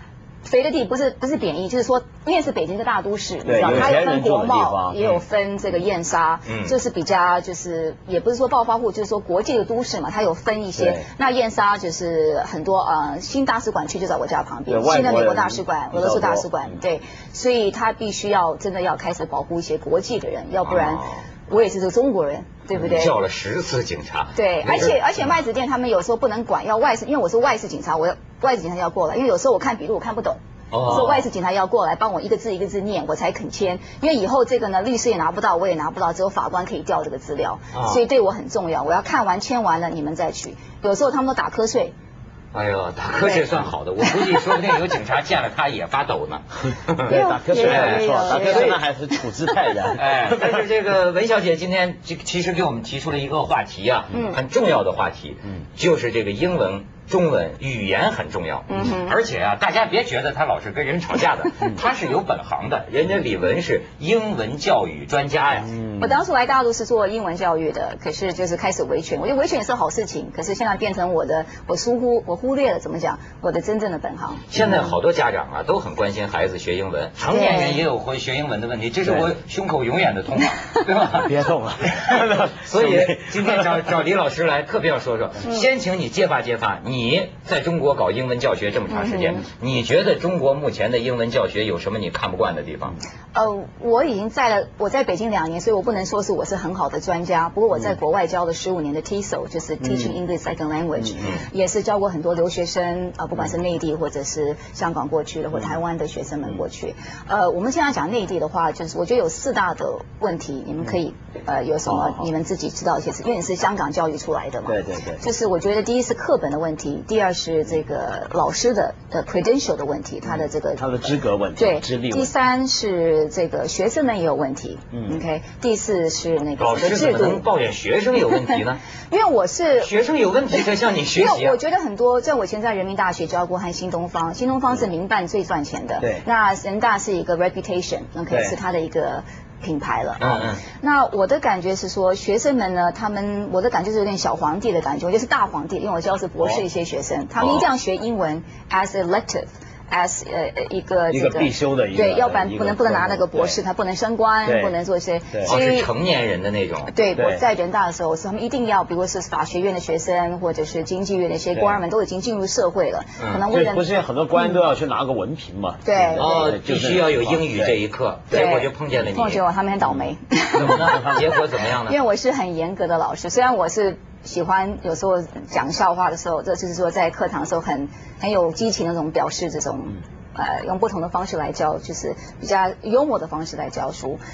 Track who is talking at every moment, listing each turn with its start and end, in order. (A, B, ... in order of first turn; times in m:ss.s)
0:00.4-0:23.2 A
0:03.4-0:05.0 B
0:06.4-0:06.8 C
0:10.8-0:11.1 B
0:14.7-0:16.8 B
0:20.7-0:21.2 C
0:22.8-0:23.0 B
0:22.8-0:25.0 C
0:24.4-0:41.9 A
0:30.7-0:31.2 C
0:37.7-0:38.0 C
0:42.5-0:48.8 C
0:43.2-0:43.4 A
0:46.9-0:50.5 B
0:47.1-0:48.8 A
0:49.9-1:05.7 C
0:54.1-0:54.4 A
0:58.7-0:59.1 A
1:05.7-1:06.2 B
1:06.0-1:14.4 A
1:14.5-1:21.3 C
1:14.6-1:14.9 B
1:17.3-1:17.8 A
1:19.0-1:19.3 B
1:21.1-1:23.8 B
1:21.9-1:33.0 C
1:28.9-1:29.4 A
1:33.3-2:00.9 A
1:39.8-1:40.1 B
1:51.9-1:52.3 B
1:54.7-1:55.2 B
2:00.2-2:02.3 B
2:01.6-2:07.4 A
2:04.9-2:05.2 B
2:06.6-2:08.8 C
2:09.1-2:09.9 A
2:09.8-2:11.6 C
2:11.1-2:35.9 A
2:18.3-2:18.6 B
2:20.2-2:20.6 C
2:26.4-2:26.6 B
2:27.4-2:27.7 C
2:31.1-2:33.6 B
2:34.4-2:34.8 B
2:35.4-2:36.9 C
2:36.9-2:44.6 A
2:37.1-2:37.4 B
2:41.5-2:41.8 B
2:43.5-2:47.8 B
2:45.8-2:46.3 A
2:46.2-2:49.4 C
2:48.3-2:51.3 A
2:50.6-2:52.0 C
2:50.6-2:51.2 B
2:51.8-3:04.2 A